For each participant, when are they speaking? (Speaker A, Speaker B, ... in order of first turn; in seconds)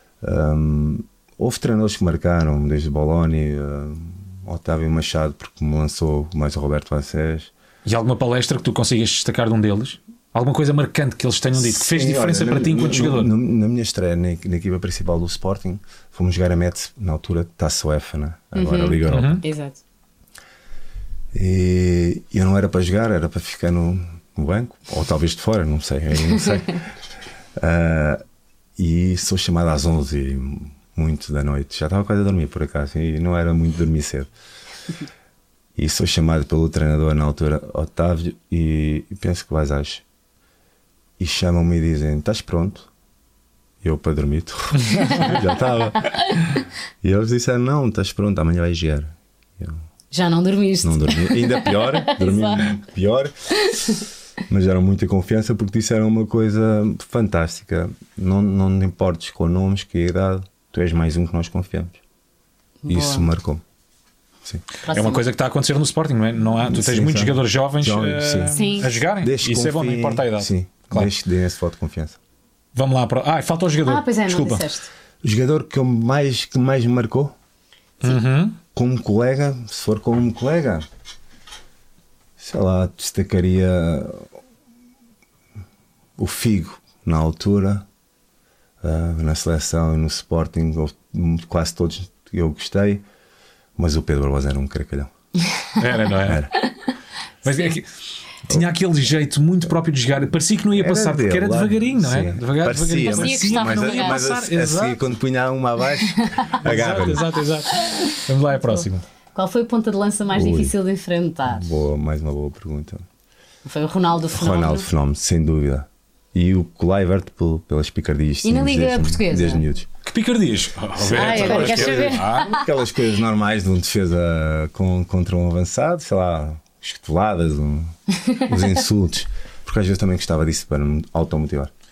Speaker A: 0.2-7.5, 11.6-19.4, 21.3-26.8, 27.6-28.2, 28.8-34.3, 35.8-40.0, 41.2-42.9, 43.8-46.3, 47.0-49.8, 50.8-53.7, 54.5-62.0, 62.9-63.6, 66.7-72.2, 75.2-77.3, 78.7-80.8, 82.4-84.2, 86.2-87.8, 88.8-93.0, 93.8-95.1, 96.2-96.5, 100.7-107.3, 110.3-110.7, 111.5-113.0, 114.3-119.9, 121.0-131.7
Speaker B: 7.8-13.3, 19.1-19.4, 45.0-45.2, 64.9-71.1, 72.7-74.7, 78.0-78.6, 95.8-96.5, 97.4-97.9, 98.5-105.1, 106.6-109.0, 120.0-122.5
Speaker C: 18.5-19.8, 50.1-52.7, 53.7-54.0, 62.8-63.3, 64.8-65.2, 68.5-68.9, 73.8-74.9, 103.0-104.2, 106.2-106.5, 107.7-108.8, 109.3-111.7, 113.6-114.9, 118.4-119.6, 121.0-122.7, 128.2-128.7